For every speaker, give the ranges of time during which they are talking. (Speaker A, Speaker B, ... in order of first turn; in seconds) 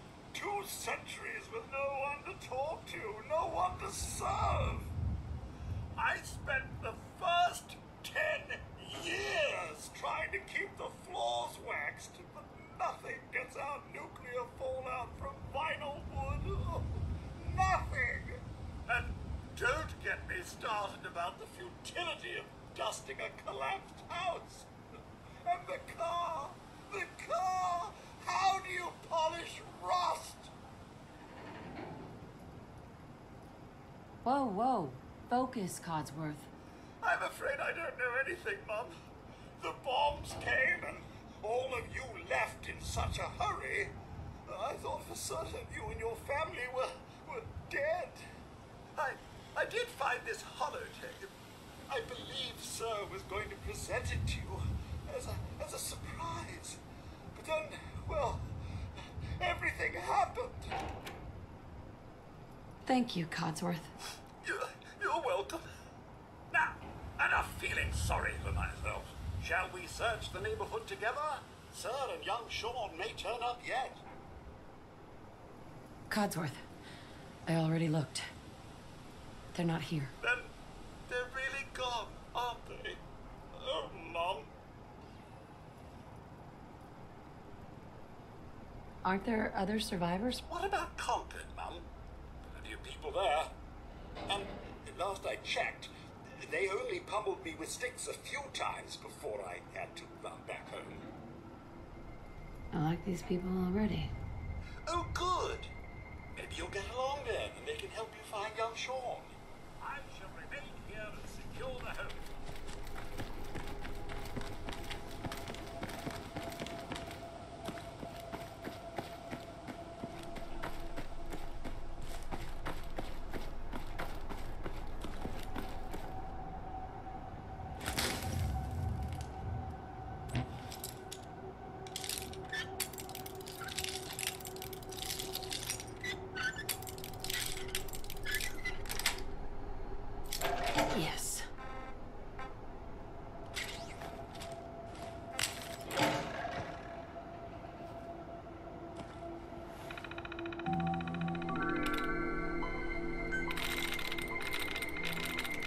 Speaker A: 0.3-4.9, 6.0-24.7, 25.4-30.5, 37.0-38.9, 39.6-48.3, 49.0-51.3, 51.9-56.8, 57.3-60.8, 64.4-65.7, 66.5-74.0, 80.2-80.5, 81.1-83.0, 83.5-84.5, 90.5-91.8, 92.4-93.5, 94.3-101.1, 104.8-105.7, 106.3-112.5
Speaker B: 34.2-36.5, 62.9-63.9, 76.1-76.6, 77.5-78.3, 79.5-80.1, 89.0-90.4, 102.7-104.1, 140.9-141.5